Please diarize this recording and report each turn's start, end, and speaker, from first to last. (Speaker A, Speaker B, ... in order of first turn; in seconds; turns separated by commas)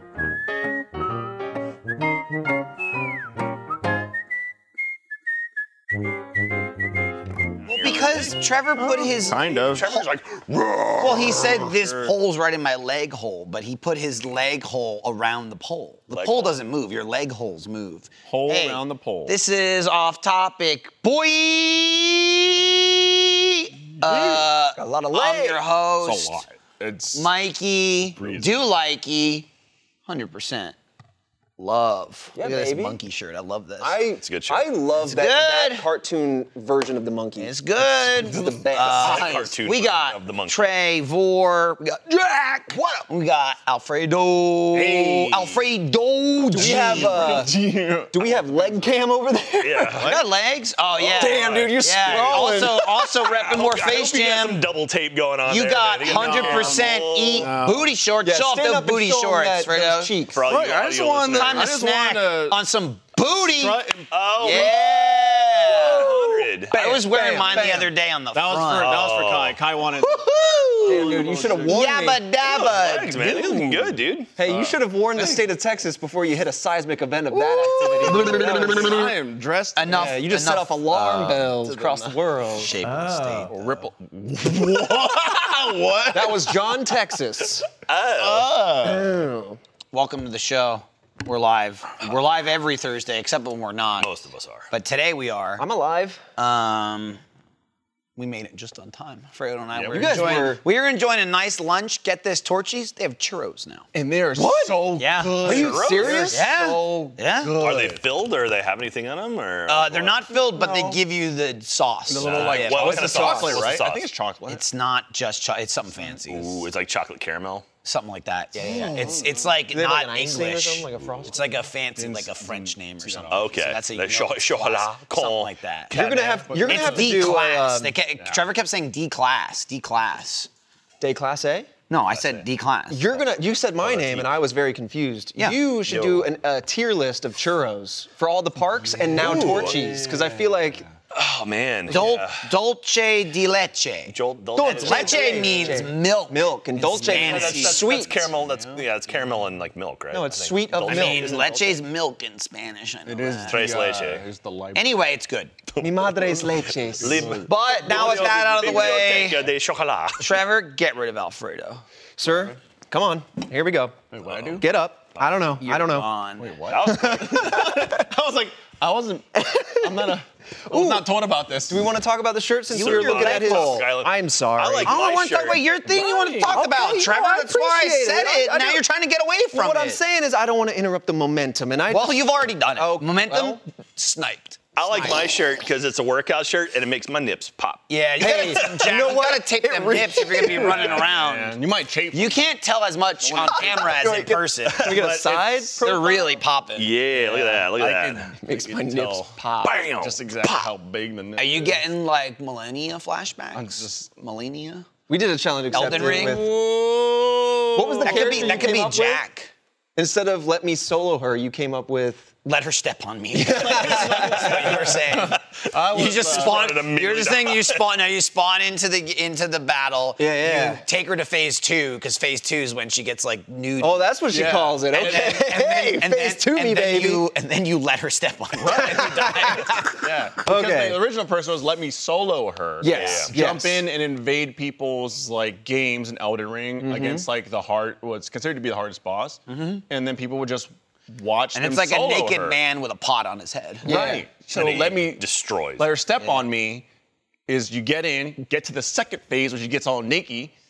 Speaker A: 7.7-8.5, Speaker B: 7.7-9.4, Speaker C: 8.8-12.1, Speaker A: 9.4-10.2, Speaker B: 11.0-26.4, Speaker A: 16.1-16.6, Speaker C: 18.3-19.4, Speaker D: 24.0-25.6, Speaker C: 26.0-27.3, Speaker B: 27.1-29.5, Speaker C: 28.1-28.6, Speaker B: 30.1-30.8, Speaker B: 31.6-34.0, Speaker D: 32.4-33.0, Speaker D: 33.8-37.5, Speaker A: 34.2-34.7, Speaker B: 35.0-35.9, Speaker B: 37.4-47.3, Speaker D: 38.1-39.5, Speaker A: 38.8-40.7, Speaker C: 44.7-45.6, Speaker C: 46.5-48.9, Speaker D: 46.5-47.5, Speaker D: 48.1-50.1, Speaker A: 49.6-50.2, Speaker C: 49.9-50.2, Speaker B: 50.0-54.6, Speaker C: 51.0-53.3, Speaker A: 51.1-52.4, Speaker D: 52.0-52.7, Speaker A: 53.3-57.5, Speaker B: 55.5-60.1, Speaker C: 56.0-57.9, Speaker D: 58.2-60.4, Speaker A: 60.3-61.7, Speaker C: 60.5-62.6, Speaker B: 61.3-63.8, Speaker C: 63.4-64.8, Speaker A: 64.1-66.7, Speaker B: 64.4-69.1, Speaker D: 66.1-67.9, Speaker C: 67.4-71.9, Speaker A: 68.8-69.6, Speaker B: 69.9-73.8, Speaker D: 70.9-72.2, Speaker A: 72.4-74.3, Speaker D: 73.2-73.6, Speaker D: 74.3-79.1, Speaker C: 74.4-75.5, Speaker C: 77.3-80.2, Speaker B: 78.0-79.1, Speaker B: 79.8-83.6, Speaker D: 79.8-82.8, Speaker C: 82.8-86.7, Speaker D: 86.1-87.7, Speaker A: 87.7-88.5, Speaker C: 88.2-89.2, Speaker D: 88.8-89.6, Speaker B: 89.9-94.1, Speaker A: 94.0-94.7, Speaker B: 94.7-95.6, Speaker D: 95.6-96.2, Speaker B: 96.4-97.2, Speaker B: 98.2-103.9, Speaker C: 99.7-100.6, Speaker D: 99.9-100.6, Speaker C: 103.9-108.0, Speaker D: 104.3-104.8, Speaker B: 104.8-105.5, Speaker D: 105.4-106.5, Speaker A: 105.4-106.3, Speaker B: 106.3-107.6, Speaker A: 107.6-110.2, Speaker B: 109.7-113.4, Speaker C: 110.3-111.0, Speaker C: 112.1-114.6, Speaker A: 112.2-114.1, Speaker D: 112.7-113.7, Speaker B: 114.5-116.6, Speaker A: 116.0-117.7, Speaker B: 117.8-125.9, Speaker D: 118.5-121.5, Speaker C: 118.6-119.5, Speaker C: 122.0-123.5, Speaker A: 123.3-126.4, Speaker D: 125.9-127.9, Speaker C: 125.9-127.3, Speaker B: 126.6-130.5, Speaker D: 131.0-131.7, Speaker B: 131.9-133.2, Speaker D: 132.9-140.8, Speaker A: 133.8-134.3, Speaker A: 135.8-136.3, Speaker C: 138.9-140.8, Speaker A: 139.1-139.8, Speaker A: 141.1-142.5, Speaker B: 141.9-147.9, Speaker A: 144.1-145.8, Speaker D: 144.6-148.3, Speaker C: 145.1-145.8, Speaker A: 146.9-151.4, Speaker C: 147.1-147.4, Speaker C: 148.4-148.8, Speaker D: 150.1-151.8, Speaker B: 150.9-153.6, Speaker C: 153.1-155.0, Speaker A: 153.5-154.2, Speaker B: 154.7-155.5, Speaker A: 155.7-160.3, Speaker D: 155.8-157.4, Speaker C: 157.0-157.5, Speaker B: 157.4-159.4, Speaker B: 160.2-161.8, Speaker D: 162.2-164.0, Speaker C: 162.3-162.5, Speaker C: 164.1-164.7, Speaker A: 164.2-164.6, Speaker D: 164.6-166.1, Speaker B: 165.6-166.5, Speaker C: 166.4-171.9, Speaker A: 166.7-167.7, Speaker D: 166.8-168.1, Speaker D: 170.7-171.1, Speaker D: 171.7-175.0, Speaker B: 172.7-173.8, Speaker A: 172.8-175.7, Speaker B: 174.8-180.0, Speaker C: 175.9-176.6, Speaker D: 176.4-178.8, Speaker D: 179.5-183.6, Speaker B: 181.9-185.1, Speaker A: 184.8-188.9, Speaker D: 184.9-185.3, Speaker B: 187.9-191.6, Speaker D: 188.2-191.1, Speaker C: 190.4-192.4, Speaker B: 192.1-194.9, Speaker C: 193.4-193.9, Speaker D: 193.4-196.4, Speaker A: 193.4-193.8, Speaker A: 194.7-195.4, Speaker C: 194.9-195.8, Speaker B: 195.8-196.9, Speaker A: 196.8-198.3, Speaker D: 197.2-197.7, Speaker C: 197.3-199.4, Speaker D: 198.4-199.9, Speaker A: 199.6-200.2, Speaker C: 200.0-201.8, Speaker B: 201.3-204.9, Speaker C: 203.5-204.1, Speaker D: 205.1-206.5, Speaker B: 205.7-209.5, Speaker D: 207.7-209.2, Speaker C: 208.0-208.7, Speaker D: 209.9-212.3, Speaker B: 212.4-224.1, Speaker D: 213.3-215.0, Speaker C: 213.7-216.6, Speaker A: 215.9-217.9, Speaker D: 220.2-220.8, Speaker D: 223.8-227.3, Speaker C: 224.3-225.3, Speaker B: 224.9-230.0, Speaker D: 228.6-231.0, Speaker C: 230.0-242.6, Speaker D: 232.8-233.8, Speaker A: 232.9-233.3, Speaker D: 236.8-237.3, Speaker B: 239.5-239.8, Speaker B: 241.5-243.9, Speaker C: 243.8-245.2, Speaker D: 243.8-244.2, Speaker A: 244.5-245.9, Speaker C: 245.8-246.8, Speaker C: 247.5-250.5